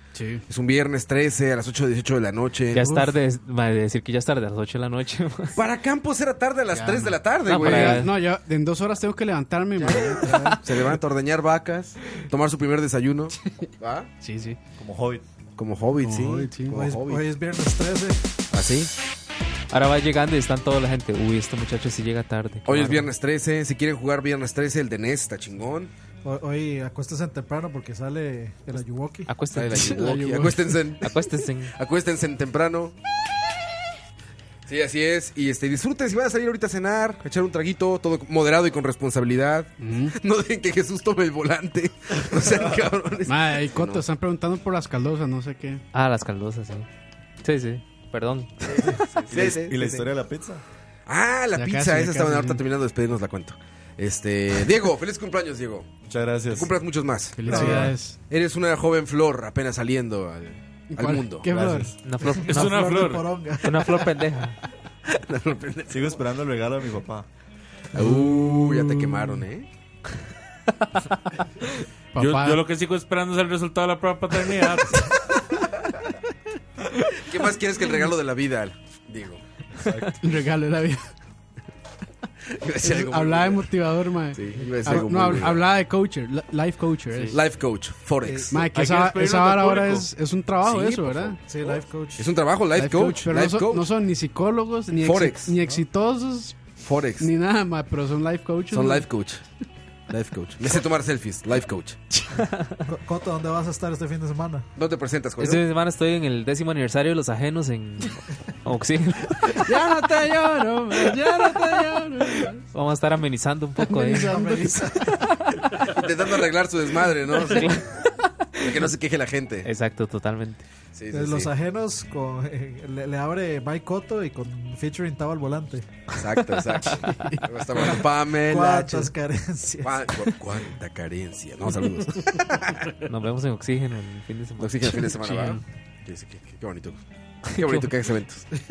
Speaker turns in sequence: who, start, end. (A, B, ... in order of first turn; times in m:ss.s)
0:00.1-0:00.4 A
0:00.5-0:03.0 B
0:02.7-0:05.6 C
0:05.5-0:08.1 B
0:06.7-0:10.8 A
0:07.4-0:08.1 C
0:09.8-0:10.6 D
0:10.6-0:14.1 B
0:14.2-0:14.6 A
0:14.8-0:15.2 E
0:15.6-0:17.2 B
0:16.0-0:16.8 A
0:16.7-0:18.2 D
0:18.5-0:18.9 B
0:19.7-0:23.0 C
0:22.6-0:25.9 B
0:26.2-0:29.3 D
0:29.3-0:30.2 C
0:29.5-0:32.9 B
0:29.7-0:30.7 A
0:31.0-0:31.7 C
0:34.7-0:44.0 B
0:39.8-0:40.2 A
0:43.2-0:45.8 A
0:45.9-0:46.9 C
0:47.4-0:48.8 C
0:48.7-0:50.0 B
0:49.3-0:50.6 E
0:51.0-0:55.9 B
0:51.5-0:52.6 A
0:56.0-0:56.7 E
0:56.5-1:01.5 B
0:57.4-0:58.2 A
0:57.5-0:57.9 D
1:00.9-1:02.0 A
1:01.5-1:01.9 E
1:02.0-1:03.1 C
1:02.2-1:04.0 D
1:02.4-1:03.2 F
1:03.6-1:04.6 C
1:05.1-1:06.1 B
1:05.9-1:07.3 E
1:07.9-1:09.7 B
1:07.9-1:09.4 A
1:12.1-1:12.6 A
1:12.2-1:15.0 F
1:17.2-1:19.4 B
1:19.8-1:20.1 E
1:20.2-1:21.1 A
1:22.5-1:23.7 B
1:22.8-1:27.4 A
1:24.3-1:25.7 B
1:27.3-1:28.6 B
1:28.2-1:28.6 D
1:28.5-1:31.4 A
1:28.7-1:30.1 F
1:30.6-1:31.4 B
1:31.4-1:32.3 D
1:32.2-1:33.9 B
1:32.7-1:39.1 A
1:35.0-1:35.6 B
1:36.8-1:37.3 B
1:38.7-1:39.4 B
1:40.1-1:42.0 B
1:42.9-1:44.7 D
1:44.8-1:45.6 B
1:45.4-1:49.6 C
1:49.6-1:52.6 A
1:52.7-1:54.5 C
1:53.9-1:55.1 D
1:53.9-1:54.9 A
1:55.8-1:57.8 B
1:57.4-1:57.8 C
1:58.6-1:59.7 B
1:59.6-2:00.6 C
2:00.9-2:01.5 B
2:01.1-2:06.0 D
2:06.1-2:09.1 B
2:06.5-2:07.2 C
2:08.4-2:10.3 D
2:09.8-2:12.9 B
2:13.0-2:15.1 C
2:14.6-2:18.4 B
2:15.1-2:15.6 A
2:17.5-2:17.9 C